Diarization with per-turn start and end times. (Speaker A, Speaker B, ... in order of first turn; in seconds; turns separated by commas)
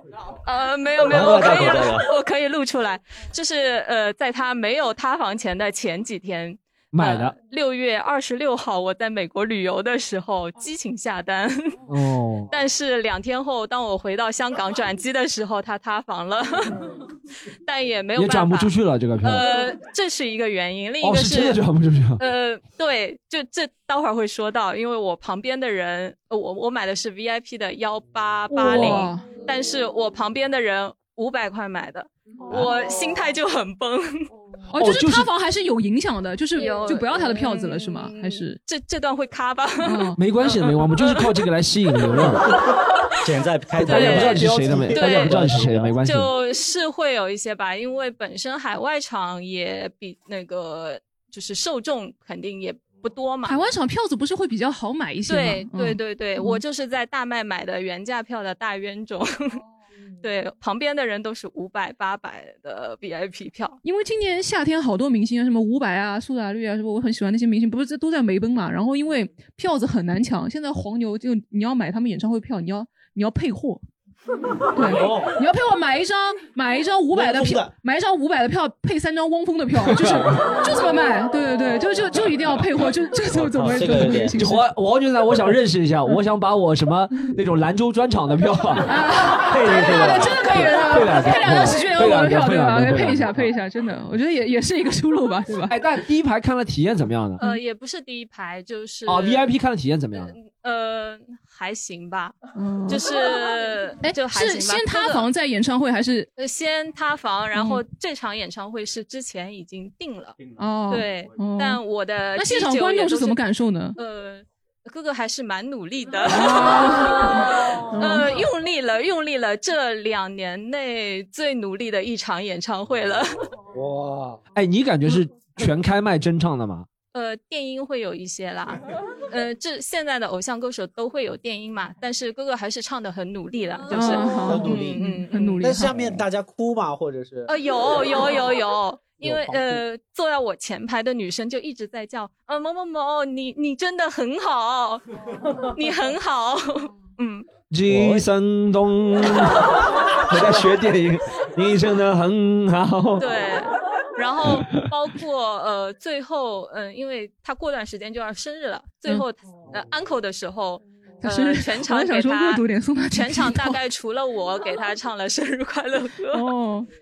Speaker A: 0.5-11.8, Speaker B: 1.1-2.1, Speaker C: 6.9-7.4, Speaker C: 11.9-12.5, Speaker A: 12.5-16.9, Speaker A: 17.6-21.6, Speaker C: 18.1-19.4, Speaker C: 21.0-22.2, Speaker A: 22.2-34.3, Speaker D: 28.5-29.2, Speaker D: 34.7-38.6, Speaker C: 34.8-35.3, Speaker A: 36.5-41.3, Speaker D: 39.8-40.2, Speaker C: 40.2-42.5, Speaker B: 43.2-45.9, Speaker C: 43.8-46.3, Speaker A: 43.9-45.4, Speaker E: 43.9-45.6, Speaker A: 46.0-53.6, Speaker D: 53.4-56.6, Speaker A: 55.3-59.6, Speaker A: 60.2-63.8, Speaker D: 63.8-73.8, Speaker D: 74.7-84.6, Speaker E: 75.0-75.2, Speaker B: 75.0-75.3, Speaker E: 77.1-77.7, Speaker C: 79.8-80.4, Speaker B: 83.3-84.3, Speaker C: 84.4-88.9, Speaker D: 88.8-95.7, Speaker B: 89.4-90.7, Speaker C: 90.7-93.5, Speaker C: 95.7-97.4, Speaker A: 97.4-99.5, Speaker C: 99.0-100.3, Speaker A: 100.1-102.3, Speaker D: 102.5-103.0, Speaker A: 102.9-105.3, Speaker D: 104.0-106.3, Speaker A: 106.4-110.4, Speaker D: 107.5-107.8, Speaker D: 110.6-111.8, Speaker A: 110.9-113.4, Speaker D: 112.3-114.0, Speaker A: 114.0-123.4, Speaker D: 116.3-118.3, Speaker E: 123.7-124.4, Speaker C: 124.5-126.9, Speaker A: 127.1-135.8, Speaker D: 133.9-135.9, Speaker E: 134.4-135.0, Speaker E: 135.6-137.5, Speaker A: 137.5-145.0, Speaker E: 139.2-139.8, Speaker A: 145.6-147.5, Speaker C: 147.7-153.2, Speaker B: 147.9-148.3, Speaker A: 153.2-166.5, Speaker C: 154.5-154.9, Speaker D: 161.2-163.8, Speaker D: 166.3-166.9